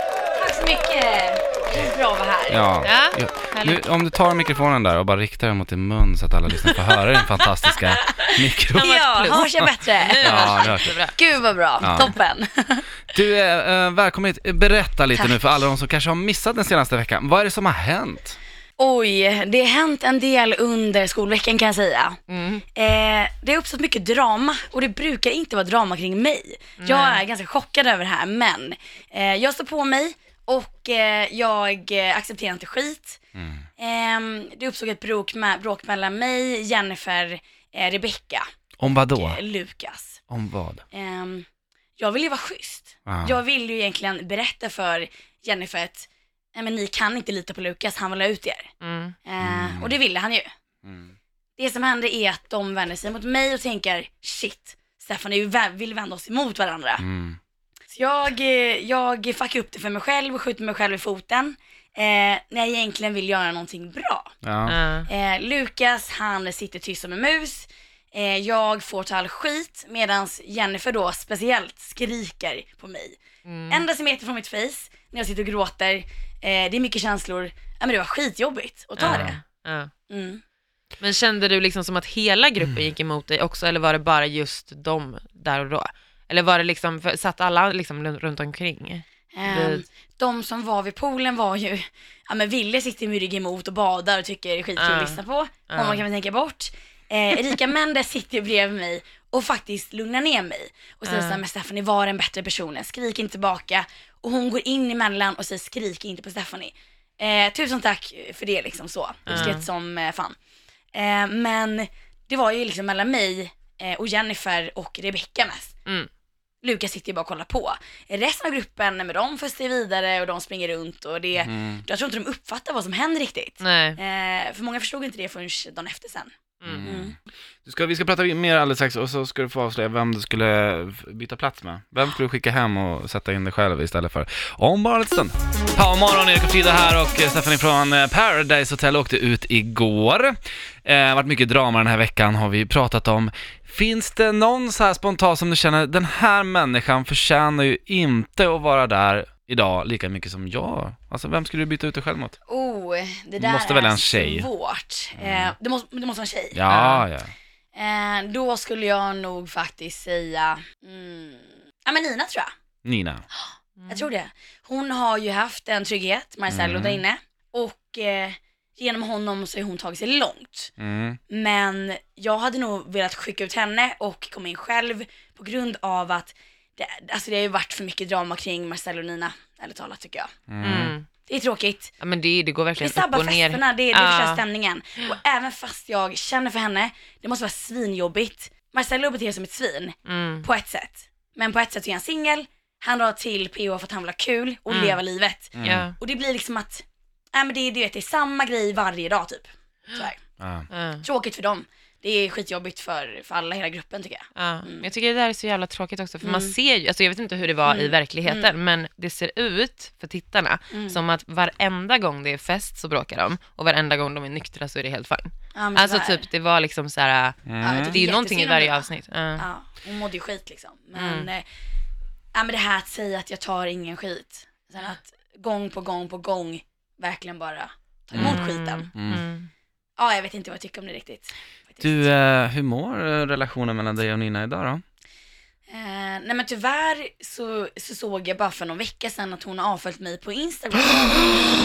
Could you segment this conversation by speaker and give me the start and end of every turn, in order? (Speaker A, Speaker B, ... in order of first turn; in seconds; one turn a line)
Speaker A: 0.4-2.6
Speaker B: 2.5-9.7
Speaker C: 2.8-3.8
Speaker C: 6.6-7.1
Speaker C: 8.2-11.2
Speaker A: 8.3-12.8
Speaker B: 10.2-10.9
Speaker B: 11.8-12.1
Speaker B: 13.1-18.4
Speaker A: 15.1-15.4
Speaker A: 18.8-22.2
Speaker C: 22.3-22.6
Speaker A: 22.7-33.2
Speaker C: 26.8-27.2
Speaker A: 33.8-38.4
Speaker B: 38.8-39.4
Speaker A: 39.1-40.2
Speaker B: 40.3-40.8
Speaker A: 40.9-41.5
Speaker A: 42.0-48.7
Speaker B: 43.0-43.3
Speaker C: 48.8-49.1
Speaker A: 49.2-50.5
Speaker B: 49.4-49.9
Speaker B: 50.8-51.1
Speaker A: 51.6-57.0
Speaker B: 57.0-57.4
Speaker A: 57.9-64.3
Speaker B: 64.4-64.7
Speaker C: 64.7-65.1
Speaker A: 65.0-79.4
Speaker C: 73.4-73.8
Speaker C: 79.0-79.9
Speaker B: 79.0-79.3
Speaker A: 80.1-80.4
Speaker C: 81.0-89.8
Speaker A: 89.3-110.4
Speaker C: 94.8-95.2
Speaker C: 95.7-96.0
Speaker C: 101.0-101.4
Speaker C: 109.3-109.7
Speaker A: 110.9-115.7
Speaker A: 116.6-127.1
Speaker B: 121.4-121.8
Speaker C: 123.6-124.0
Speaker C: 126.6-126.9
Speaker B: 126.7-127.1
Speaker B: 127.6-152.3
Speaker A: 152.5-156.6
Speaker B: 153.4-154.5
Speaker B: 155.2-155.5
Speaker B: 156.5-157.3
Speaker C: 156.7-157.1
Speaker A: 157.7-162.5
Speaker B: 162.8-163.2
Speaker C: 163.8-164.1
Speaker A: 163.9-170.7
Speaker B: 166.5-167.0
Speaker B: 170.8-171.2
Speaker A: 171.3-180.3
Speaker B: 180.5-180.9
Speaker C: 180.6-181.1
Speaker A: 181.3-181.9
Speaker C: 182.0-184.4
Speaker A: 182.8-200.2
Speaker C: 190.1-190.4
Speaker C: 194.7-195.0
Speaker B: 195.6-195.9
Speaker C: 195.6-195.9
Speaker B: 200.4-200.7
Speaker C: 200.7-201.0
Speaker A: 201.0-204.8
Speaker C: 204.3-219.4
Speaker A: 206.2-206.6
Speaker A: 207.7-208.5
Speaker A: 210.7-211.0
Speaker A: 215.5-216.3
Speaker B: 217.4-218.0
Speaker A: 217.6-221.4
Speaker C: 220.9-221.3
Speaker A: 222.3-228.9
Speaker C: 228.2-229.5
Speaker B: 228.9-229.2
Speaker A: 230.0-232.1
Speaker B: 231.8-234.8
Speaker A: 235.7-241.4